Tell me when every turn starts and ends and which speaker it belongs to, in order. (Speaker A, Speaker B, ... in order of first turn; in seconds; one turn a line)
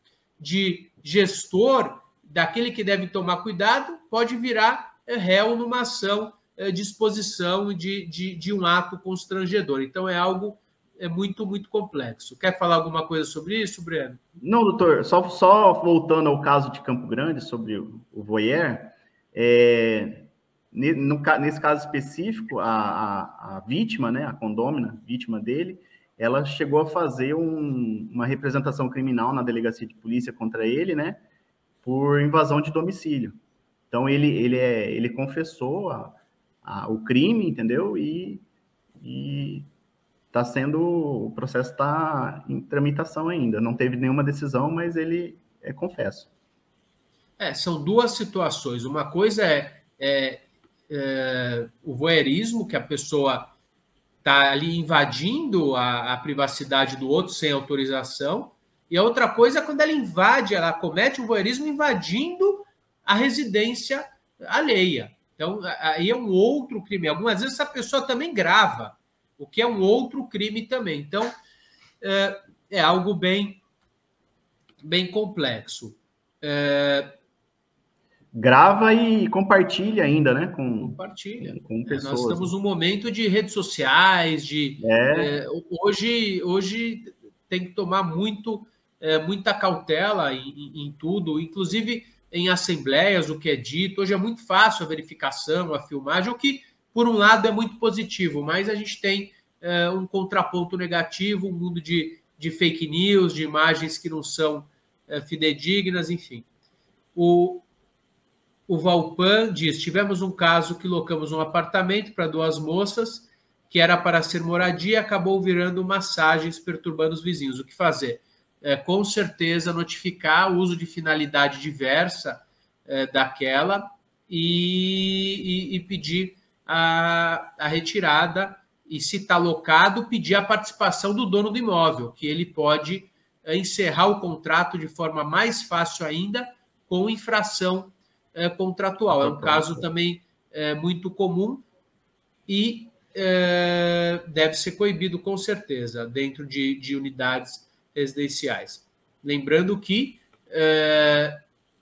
Speaker A: 0.4-14.2
Speaker B: 14.4-31.2
Speaker B: 31.8-33.3
Speaker B: 33.9-38.4
Speaker B: 39.0-39.7
Speaker B: 40.3-46.3
Speaker A: 47.4-53.5
Speaker A: 54.2-71.3
Speaker A: 72.0-73.6
Speaker A: 74.8-77.1
Speaker B: 78.3-82.5
Speaker A: 80.8-106.5
Speaker B: 84.8-85.4
Speaker A: 107.1-107.7
Speaker A: 108.7-141.6
Speaker B: 139.1-139.9
Speaker A: 142.5-151.4